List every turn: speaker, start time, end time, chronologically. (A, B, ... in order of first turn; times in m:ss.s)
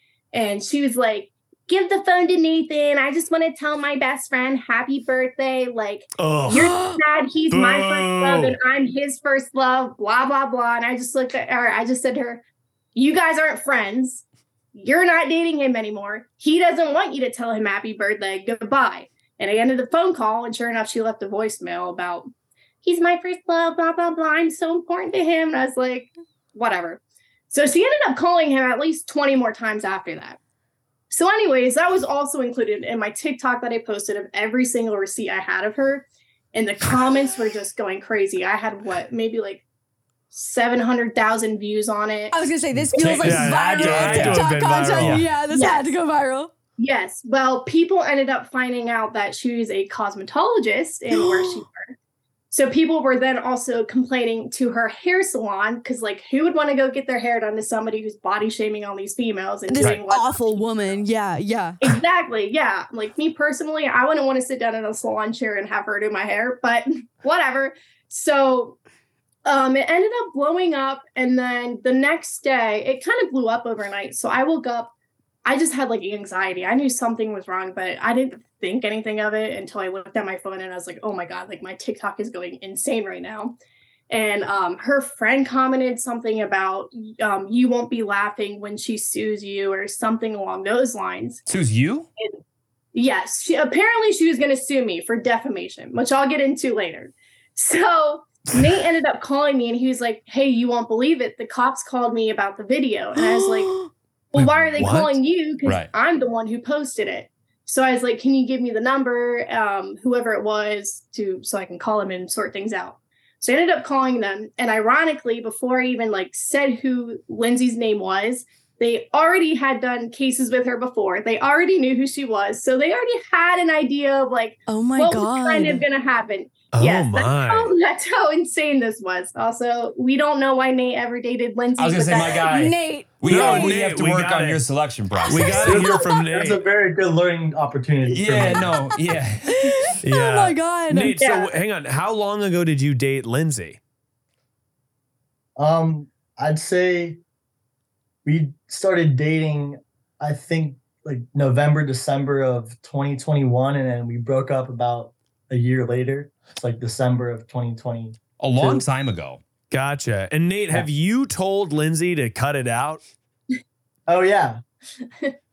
0:00.3-0:12.4 A
0:06.2-0:06.8 B
0:06.6-0:07.0 C
0:07.5-0:08.6 B
0:13.0-0:22.3 A
0:22.8-0:30.4 A
0:31.1-0:39.6 A
0:40.3-0:42.4 A
0:42.3-0:46.5 C
0:42.9-0:45.2 D
0:43.0-0:45.3 B
0:45.5-0:46.0 A
0:46.8-0:51.9 A
0:51.1-0:51.6 C
0:52.5-1:01.1 A
0:59.7-1:01.8 C
1:01.8-1:08.8 A
1:09.5-1:14.9 A
1:15.5-1:23.6 A
1:24.1-1:31.4 A
1:31.5-1:32.1 D
1:32.9-2:12.5 A
1:43.2-1:43.9 C
1:44.8-1:45.2 B
2:04.7-2:05.8 C
2:06.7-2:07.7 B
2:11.8-2:16.0 D
2:12.4-2:13.8 C
2:13.2-2:14.7 B
2:15.2-2:15.9 C
2:15.3-2:16.6 B
2:15.6-2:18.8 E
2:18.1-2:19.9 D
2:19.5-2:21.2 C
2:20.0-2:23.8 B
2:21.2-2:21.5 A
2:25.6-2:27.2 E
2:28.2-2:38.8 E
2:38.4-2:39.4 D
2:39.7-2:43.0 B
2:44.1-2:44.6 E